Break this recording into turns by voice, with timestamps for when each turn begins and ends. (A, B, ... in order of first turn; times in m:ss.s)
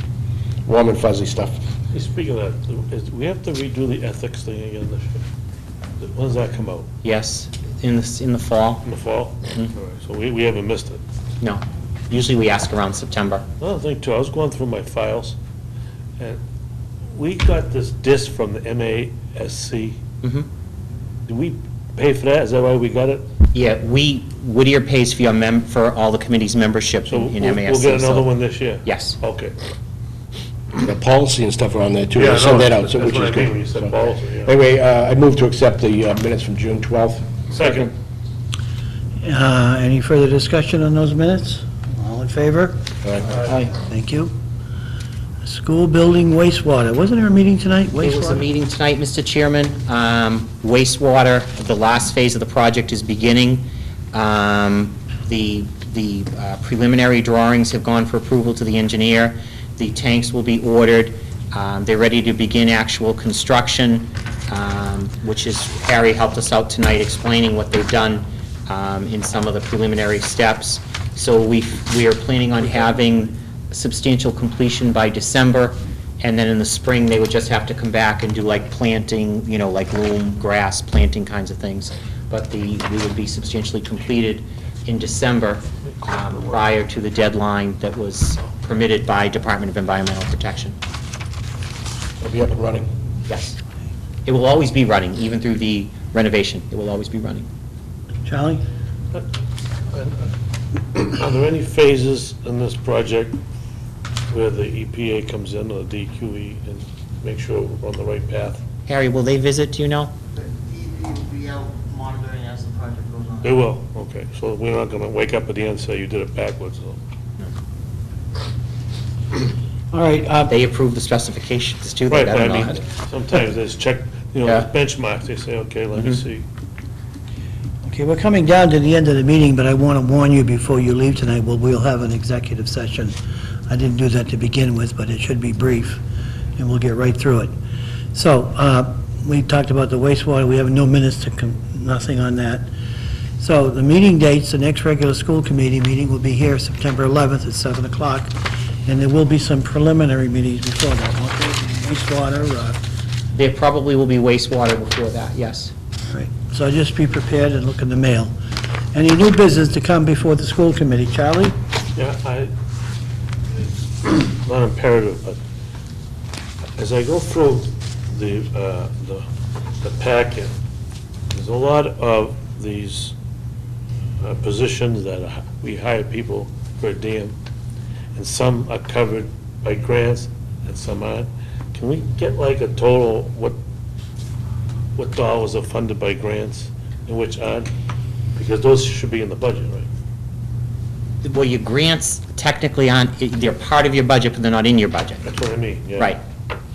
0:00.6-0:01.6 A
0:01.9-0:05.2 B
0:06.0-0:06.9 B
0:07.0-0:08.8 C
0:08.8-0:11.0 B
0:11.4-0:13.4 C
0:13.6-0:15.4 B
0:17.1-0:20.0 B
0:20.2-0:20.5 C
0:21.3-0:23.3 B
0:23.5-0:29.2 C
0:27.1-0:29.5 B
0:30.8-0:33.9 A
0:32.1-0:34.6 B
0:34.4-0:37.4 A
0:37.5-0:37.9 B
0:39.2-0:42.8 D
0:43.0-0:43.3 A
0:43.2-0:43.6 B
0:43.4-0:44.3 D
0:45.4-0:48.4 D
0:48.0-1:30.8 C
1:32.2-1:32.9 A
1:33.3-1:33.6 C
1:34.2-1:37.5 C
1:38.2-1:38.6 D
1:39.9-1:40.3 B
1:40.9-1:43.4 B
1:44.3-1:48.6 B
1:48.9-1:50.1 C
1:50.6-1:53.3 E
1:53.4-1:57.0 B
1:59.9-2:00.5 D
2:00.5-2:02.8 C
2:02.1-2:06.4 B
2:07.8-2:13.2 D
2:13.7-2:16.0 D
2:16.6-2:17.5 D
2:18.1-2:22.7 D
2:23.4-2:32.8 D
2:33.3-2:35.7 C
2:36.1-2:38.3 D
2:38.9-2:41.5 D
2:42.0-2:42.5 B
2:44.0-2:45.4 B
2:46.8-2:49.2 B
2:49.8-2:50.5 B
2:51.3-2:53.1 B
2:54.2-2:57.4 B
2:58.1-3:03.6 B
3:05.0-3:07.7 B
3:08.4-3:09.9 B
3:11.2-3:15.2 C
3:15.2-3:16.2 B